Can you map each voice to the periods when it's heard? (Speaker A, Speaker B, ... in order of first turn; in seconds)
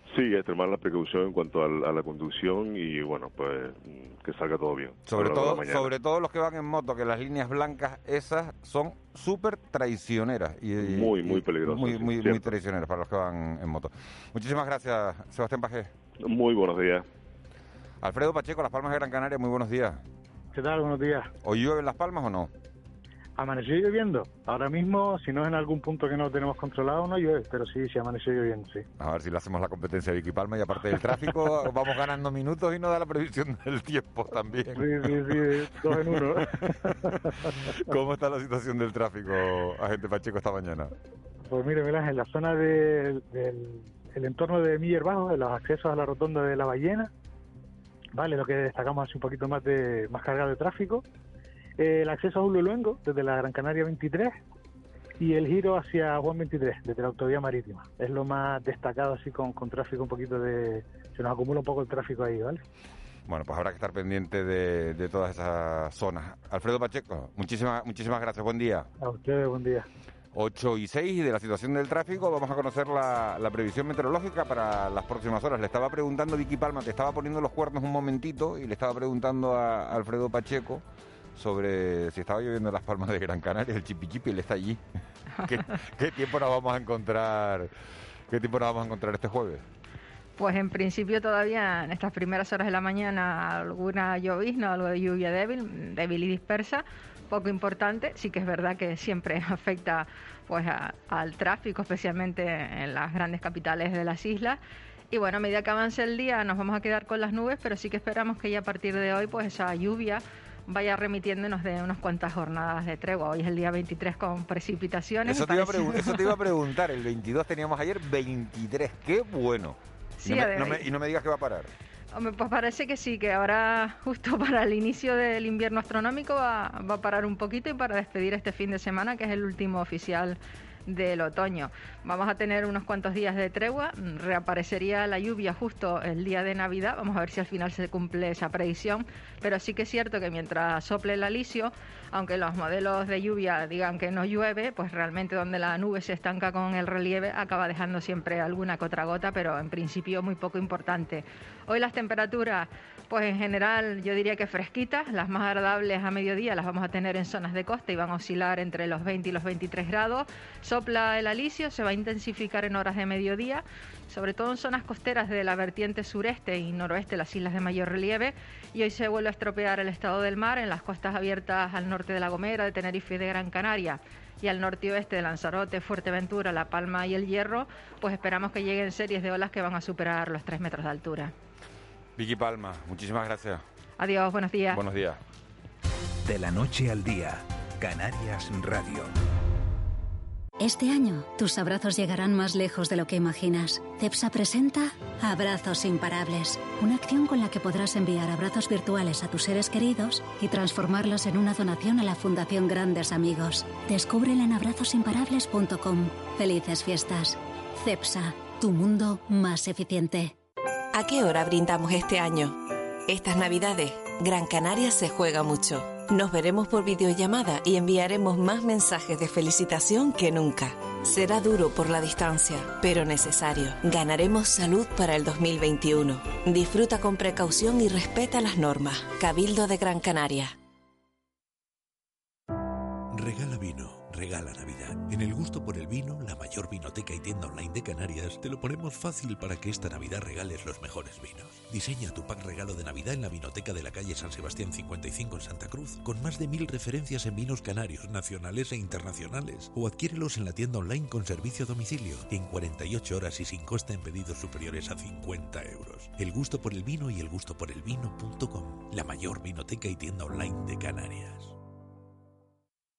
Speaker A: 0.1-5.9, 10.8-12.6, 16.2-17.1
Speaker B: 5.1-15.9, 18.0-20.0, 21.4-22.5, 29.0-37.3, 37.9-40.9, 63.3-68.9, 70.3-80.8, 81.3-84.8, 85.4-87.7, 88.3-89.6, 115.2-121.7, 182.2-183.6, 184.7-185.2
Speaker C: 20.5-21.3, 23.4-28.9, 34.7-36.9, 41.5-47.1, 48.2-51.0, 51.8-54.4, 55.2-62.6, 69.0-69.9
Speaker D: 90.4-104.6, 105.1-116.3, 120.2-120.9, 122.2-181.3, 184.0-184.8
Speaker E: 186.2-189.1
Speaker F: 190.6-210.3
Speaker G: 210.9-230.6
Speaker H: 233.1-261.6